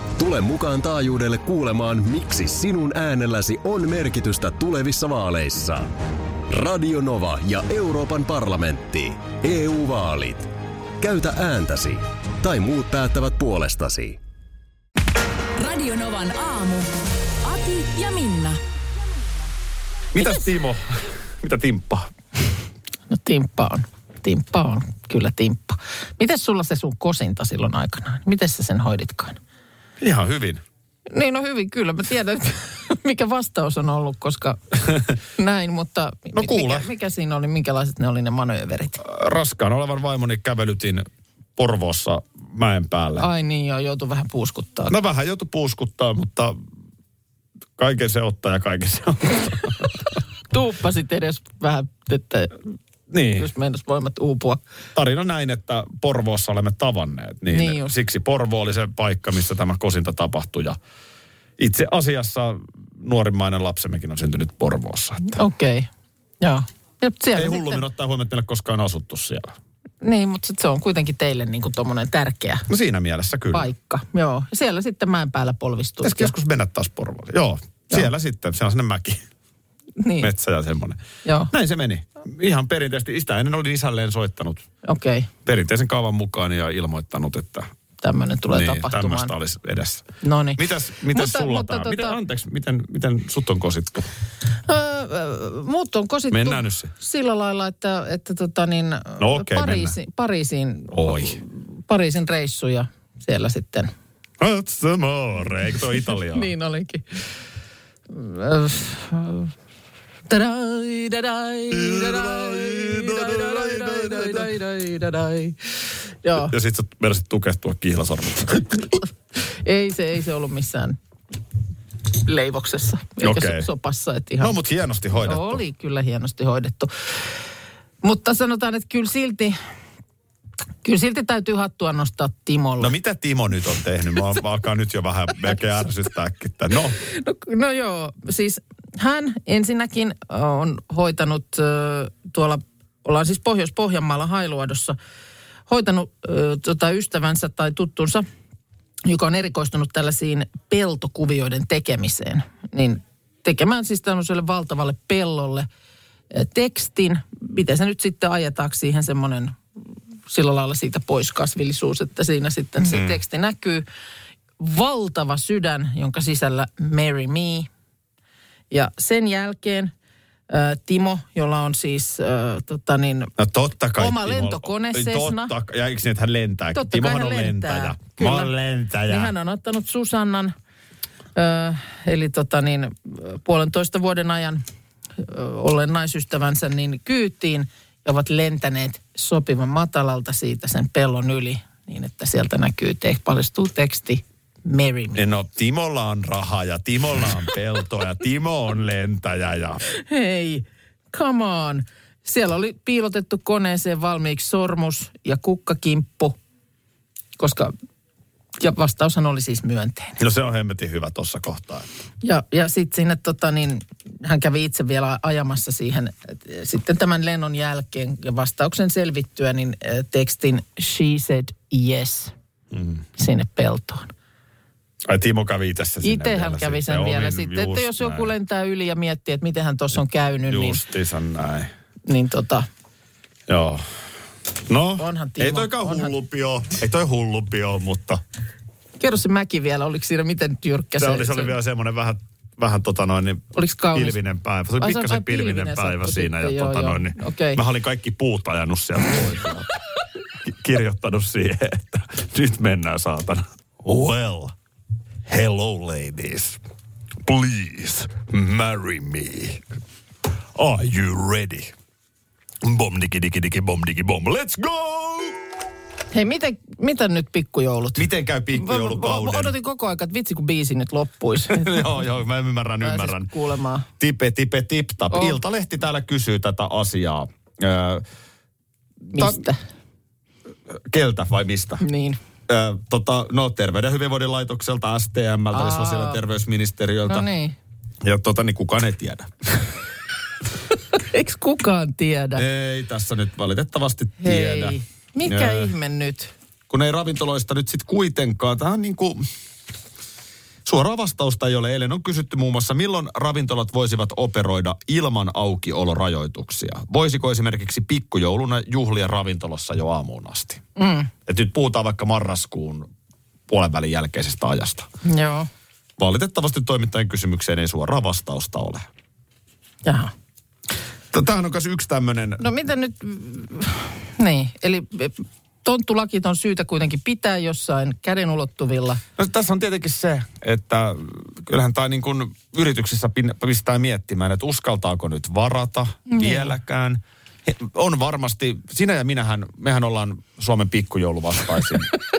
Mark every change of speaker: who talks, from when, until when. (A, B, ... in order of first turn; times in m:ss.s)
0:00.2-0:05.9 A
0:06.5-0:14.2 A
0:15.6-0:16.9 B
0:17.4-0:18.6 B
0:20.1-0:22.1 C
0:23.1-0:29.4 D
0:30.0-0:30.6 C
0:31.1-0:34.8 D
0:35.4-0:39.0 D
0:36.3-0:36.9 C
0:39.0-0:43.3 C
0:43.2-0:44.9 D
0:44.9-0:46.5 C
0:47.8-0:50.2 C
0:50.5-0:52.6 D
0:53.1-0:53.5 C
0:53.4-0:54.6 D
0:54.9-1:00.8 C
0:57.5-0:57.9 D
1:01.6-1:05.4 C
1:05.3-1:05.9 D
1:06.4-1:07.8 D
1:07.3-1:09.6 C
1:10.0-1:12.6 D
1:12.7-1:13.7 C
1:13.5-1:16.3 D
1:16.0-1:19.2 C
1:20.0-1:20.3 D
1:20.2-1:21.0 C
1:21.2-1:21.5 D
1:21.5-1:24.6 C
1:24.8-1:25.3 D
1:25.4-1:27.7 C
1:28.0-1:29.3 D
1:28.5-1:30.0 C
1:30.2-1:32.2 D
1:30.6-1:34.1 C
1:34.6-1:43.9 D
1:36.3-1:36.9 C
1:39.2-1:40.0 C
1:40.9-1:41.4 C
1:44.4-1:46.5 C
1:46.2-1:47.2 D
1:48.1-1:49.5 D
1:50.3-1:55.6 D
1:51.7-1:54.5 C
1:56.2-1:56.5 D
1:56.4-1:58.9 C
1:59.6-2:01.0 D
2:02.2-2:04.5 D
2:03.2-2:03.7 C
2:04.4-2:05.6 C
2:05.2-2:07.3 D
2:08.0-2:09.6 D
2:10.8-2:12.9 D
2:12.8-2:17.0 C
2:17.0-2:25.0 D
2:25.7-2:28.2 D
2:29.0-2:35.7 D
2:36.3-2:39.6 D
2:40.3-2:43.8 D
2:42.8-2:43.2 C
2:44.6-2:47.7 D
2:48.7-2:49.9 D
2:50.5-2:53.3 D
2:53.4-2:59.3 C
2:54.0-2:55.5 D
2:56.7-2:58.5 D
2:59.1-3:00.5 D
3:01.3-3:04.6 D
3:05.2-3:15.2 D
3:15.1-3:19.8 C
3:20.0-3:26.4 D
3:27.4-3:27.7 D
3:28.6-3:30.2 D
3:30.2-3:31.9 C
3:32.2-3:42.3 D
3:42.7-3:43.0 C
3:43.2-3:44.1 D
3:45.1-3:48.3 C
3:46.0-3:50.8 D
3:50.5-3:51.7 C
3:52.0-3:52.7 D
3:53.5-3:53.8 C
3:54.7-3:58.2 C
3:55.0-3:56.1 D
3:59.0-4:01.5 D
4:01.0-4:09.7 C
4:03.5-4:04.2 D
4:04.8-4:07.6 D
4:10.3-4:14.5 C
4:15.2-4:16.6 C
4:17.2-4:19.6 C
4:20.5-4:21.7 C
4:22.6-4:25.4 C
4:26.1-4:32.0 D
4:28.0-4:29.5 C
4:31.5-4:33.3 C
4:32.8-4:33.9 D
4:34.0-4:38.0 C
4:35.1-4:35.4 D
4:39.1-4:39.6 D
4:39.2-4:39.4 C
4:40.7-4:41.8 C
4:41.8-4:42.2 D
4:42.5-4:47.3 C
4:45.5-4:46.2 D
4:47.1-4:47.6 D
4:48.0-4:49.7 C
4:51.0-4:52.4 D
4:52.4-4:55.7 C
4:54.2-4:56.3 D
4:56.7-4:59.2 C
5:00.6-5:10.6 C
5:10.8-5:11.1 D
5:11.3-5:12.9 C
5:13.5-5:14.9 C
5:15.0-5:15.5 D
5:16.0-5:18.9 C
5:19.8-5:20.1 D
5:21.1-5:22.4 C
5:22.4-5:29.0 D
5:29.2-5:41.9 C
5:36.1-5:36.5 D